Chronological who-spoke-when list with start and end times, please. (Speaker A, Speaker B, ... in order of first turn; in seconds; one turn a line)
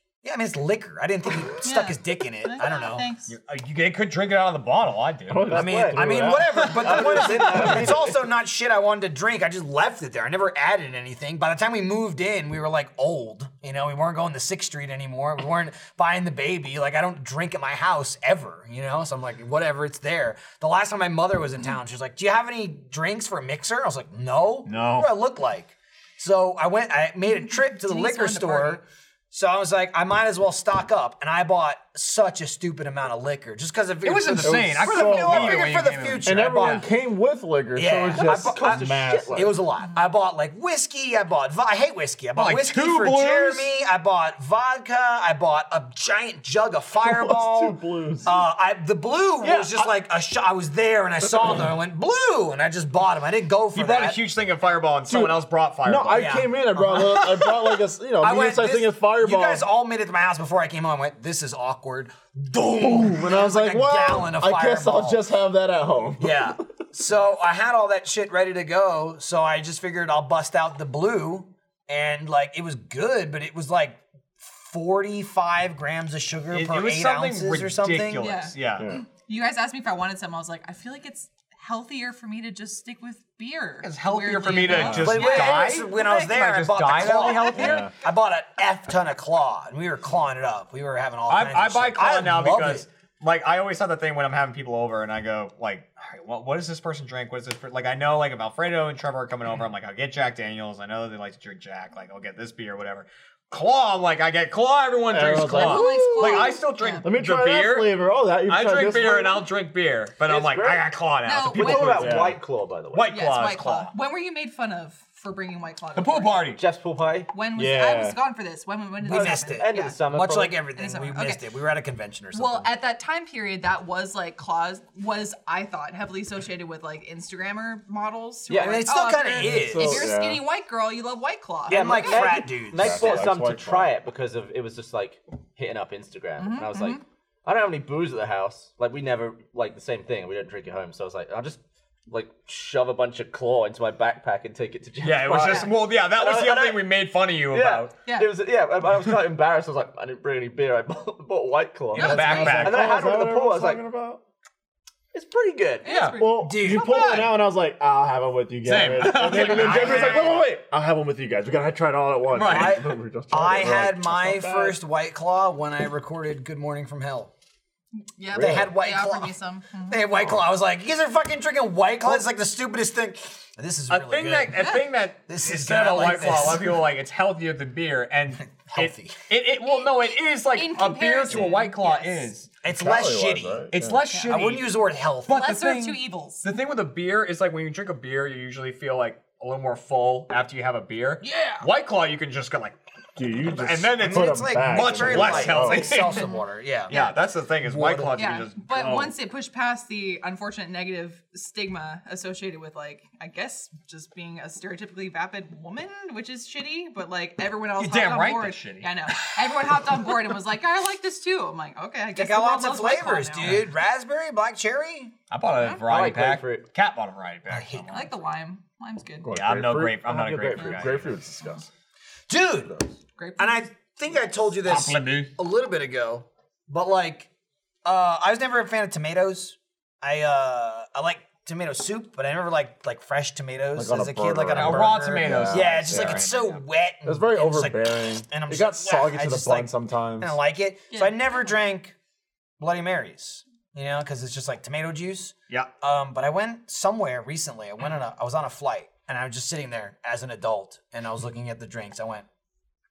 Speaker A: 0.2-3.1
Speaker B: 1.6-3.3
Speaker C: 3.3-5.5
Speaker D: 5.3-7.9
Speaker E: 5.5-8.2
Speaker A: 5.5-36.9
Speaker C: 24.6-25.1
Speaker B: 27.3-28.8
Speaker C: 34.0-36.8
Speaker D: 34.4-35.7
Speaker D: 36.2-39.6
Speaker A: 37.7-54.2
Speaker E: 38.1-39.5
Speaker C: 42.3-43.7
Speaker D: 47.0-48.3
Speaker E: 49.4-49.8
Speaker C: 53.7-56.4
Speaker D: 55.1-59.7
Speaker A: 56.1-57.6
Speaker A: 58.2-65.2
Speaker D: 62.7-66.6
Speaker A: 66.2-78.2
Speaker C: 76.5-78.9
Speaker B: 78.2-85.9
Speaker D: 78.8-79.0
Speaker C: 83.8-87.8
Speaker D: 84.7-85.2
Speaker A: 84.7-92.8
Speaker B: 87.0-88.0
Speaker D: 87.6-87.9
Speaker C: 91.3-107.9
Speaker D: 105.1-109.5
Speaker B: 105.5-107.1
Speaker C: 108.5-112.2
Speaker E: 110.2-113.1
Speaker B: 111.2-112.2
Speaker D: 111.6-112.4
Speaker C: 112.9-113.9
Speaker B: 113.1-116.3
Speaker C: 116.0-116.6
Speaker E: 116.5-117.3
Speaker B: 117.3-120.0
Speaker D: 117.5-118.2
Speaker A: 119.0-122.7
Speaker E: 119.1-120.6
Speaker B: 120.7-121.4
Speaker B: 122.3-132.4
Speaker E: 128.5-128.9
Speaker A: 128.5-130.1
Speaker D: 129.3-130.4
Speaker A: 131.7-133.2
Speaker E: 131.7-146.9
Speaker D: 132.7-133.9
Speaker B: 136.4-137.0
Speaker C: 145.0-147.9
Speaker B: 145.4-145.7
Speaker E: 147.5-153.8
Speaker B: 148.1-148.3
Speaker B: 151.9-152.7
Speaker D: 151.9-154.2
Speaker C: 152.0-152.9
Speaker E: 155.1-155.9
Speaker B: 155.8-157.3
Speaker C: 155.8-156.2
Speaker D: 156.2-164.8
Speaker A: 156.4-157.2
Speaker C: 158.6-160.3
Speaker E: 159.0-159.4
Speaker A: 159.2-160.5
Speaker C: 162.3-162.8
Speaker A: 162.4-167.3
Speaker B: 168.1-170.3
Speaker D: 168.3-168.7
Speaker A: 168.3-169.3
Speaker A: 169.9-174.7
Speaker C: 173.9-182.5
Speaker B: 174.5-174.9
Speaker A: 175.3-176.8
Speaker A: 178.6-179.2
Speaker B: 179.7-179.9
Speaker B: 180.5-182.3
Speaker A: 182.6-183.7
Speaker D: 182.7-184.0
Speaker C: 183.7-192.8
Speaker A: 184.3-185.5
Speaker B: 185.3-186.5
Speaker B: 191.2-191.7
Speaker D: 193.2-195.9
Speaker C: 193.3-196.3
Speaker A: 194.0-197.1
Speaker B: 196.1-196.4
Speaker C: 196.9-199.1
Speaker A: 197.6-198.1
Speaker B: 198.2-213.6
Speaker C: 207.8-209.8
Speaker A: 212.1-215.1
Speaker C: 215.3-218.1
Speaker E: 215.8-216.7
Speaker A: 217.5-218.1
Speaker B: 217.9-219.3
Speaker D: 219.2-221.6
Speaker C: 219.3-221.2
Speaker E: 220.1-220.9
Speaker B: 220.6-221.6
Speaker A: 222.3-222.8
Speaker B: 223.2-223.7
Speaker A: 223.4-227.3
Speaker C: 224.6-225.3
Speaker A: 227.8-241.9
Speaker D: 233.8-236.3
Speaker C: 234.5-236.6
Speaker D: 237.0-240.4
Speaker B: 240.9-241.5
Speaker A: 242.6-252.2